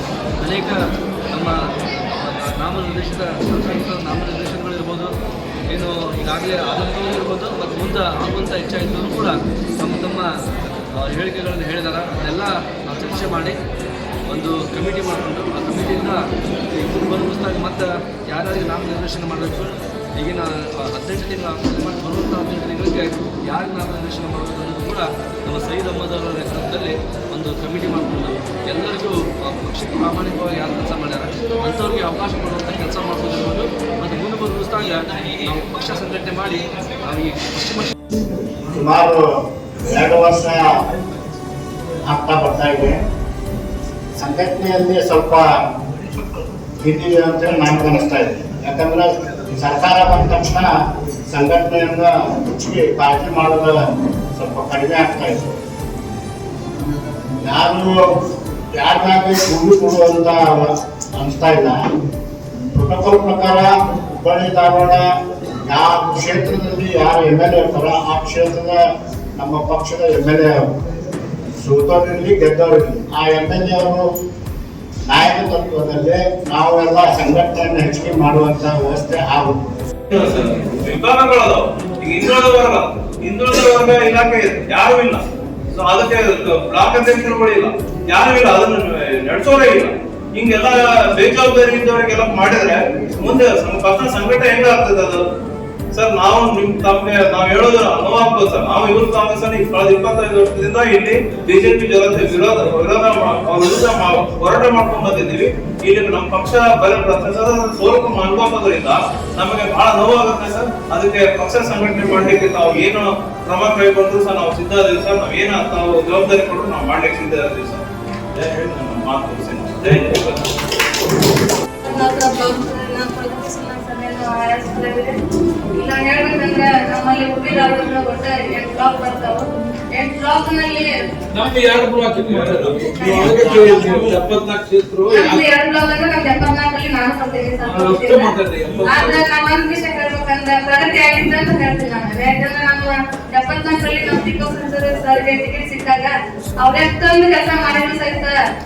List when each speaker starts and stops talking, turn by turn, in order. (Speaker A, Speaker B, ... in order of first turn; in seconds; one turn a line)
Speaker A: 0.4-0.8
Speaker A: 1.3-1.6
Speaker A: 2.2-5.1
Speaker A: 5.7-10.3
Speaker A: 11.0-13.6
Speaker A: 14.3-16.2
Speaker A: 16.7-37.9
Speaker B: 38.7-39.2
Speaker B: 39.9-40.6
Speaker B: 42.1-43.0
Speaker B: 44.2-45.5
Speaker B: 46.8-50.7
Speaker B: 51.3-53.8
Speaker B: 54.4-55.4
Speaker B: 57.4-57.9
Speaker B: 58.7-61.8
Speaker B: 62.7-65.0
Speaker B: 65.7-68.8
Speaker B: 69.4-70.6
Speaker B: 71.6-74.1
Speaker B: 75.1-79.6
Speaker C: 80.1-85.2
Speaker C: 85.8-95.2
Speaker C: 95.9-120.5
Speaker D: 121.8-125.2
Speaker D: 125.7-131.0
Speaker E: 131.3-135.4
Speaker C: 132.3-135.2
Speaker D: 132.9-133.8
Speaker D: 135.1-148.3
Speaker E: 137.7-139.2
Speaker C: 138.8-139.1